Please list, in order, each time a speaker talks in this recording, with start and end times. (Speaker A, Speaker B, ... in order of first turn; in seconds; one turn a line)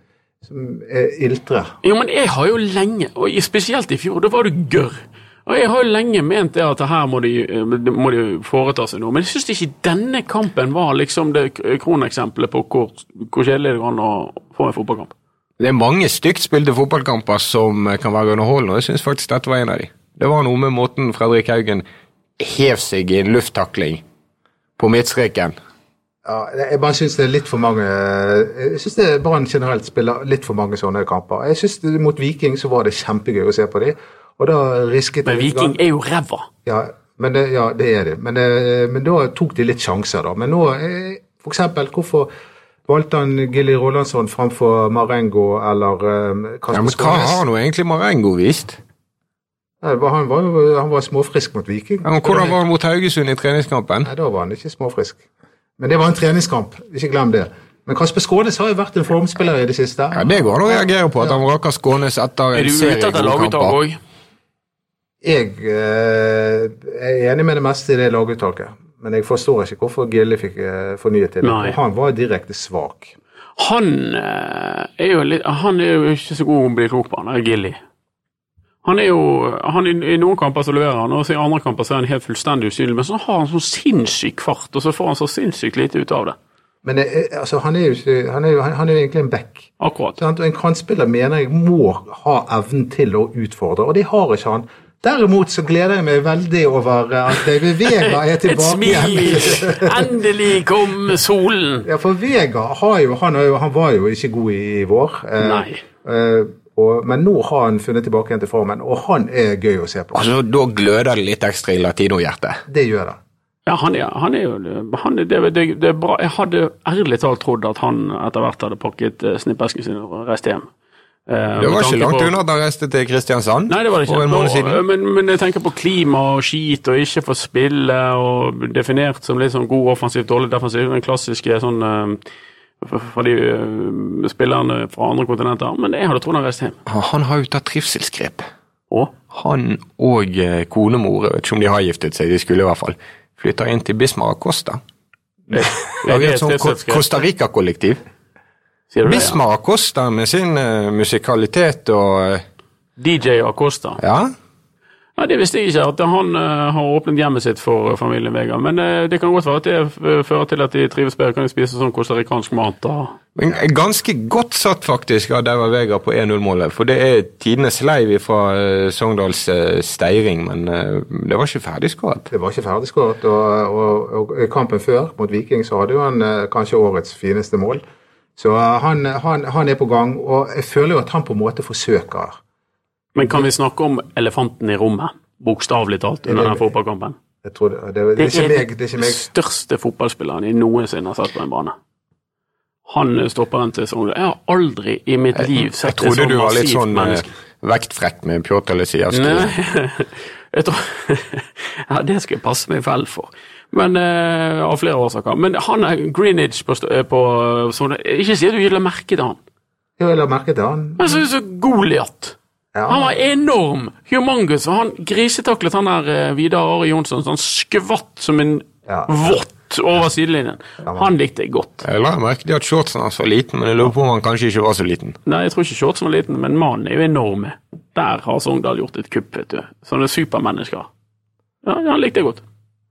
Speaker A: 0.5-1.7
Speaker B: 1.8-15.1
Speaker C: 15.6-21.8
Speaker C: 22.4-24.0
Speaker C: 24.8-25.5
Speaker A: 26.2-35.8
Speaker B: 35.2-36.5
Speaker A: 36.6-42.3
Speaker A: 42.9-47.4
Speaker C: 46.7-48.8
Speaker A: 49.8-52.6
Speaker C: 52.0-54.1
Speaker A: 54.0-55.2
Speaker A: 55.8-61.4
Speaker C: 60.1-63.8
Speaker B: 62.5-64.0
Speaker A: 65.2-73.1
Speaker B: 71.4-71.8
Speaker B: 73.6-77.8
Speaker B: 78.8-86.3
Speaker A: 86.8-100.1
Speaker B: 89.8-90.2
Speaker B: 98.0-101.9
Speaker A: 101.8-110.2
Speaker B: 105.4-105.8
Speaker C: 110.1-112.6
Speaker A: 112.7-113.2
Speaker B: 113.7-120.7
Speaker B: 121.3-122.3
Speaker C: 121.6-124.8
Speaker B: 123.7-132.2
Speaker B: 132.8-136.8
Speaker C: 136.8-138.4
Speaker C: 139.3-144.8
Speaker B: 145.5-147.1
Speaker C: 146.0-148.0
Speaker B: 148.9-149.4
Speaker C: 149.1-152.4
Speaker B: 153.0-154.0
Speaker C: 154.0-154.3
Speaker B: 155.2-163.2
Speaker C: 163.3-172.3
Speaker A: 172.3-177.8
Speaker A: 178.4-182.4
Speaker B: 183.2-187.2
Speaker A: 183.2-183.4
Speaker A: 186.2-186.7
Speaker A: 187.4-189.3
Speaker B: 188.2-191.7
Speaker B: 192.8-197.3
Speaker C: 195.3-199.5
Speaker B: 199.1-209.4
Speaker A: 210.0-211.2
Speaker B: 211.0-212.3
Speaker A: 212.7-213.1
Speaker B: 212.9-221.8
Speaker A: 218.9-219.3
Speaker C: 221.8-225.2
Speaker B: 225.2-230.9
Speaker B: 231.6-232.4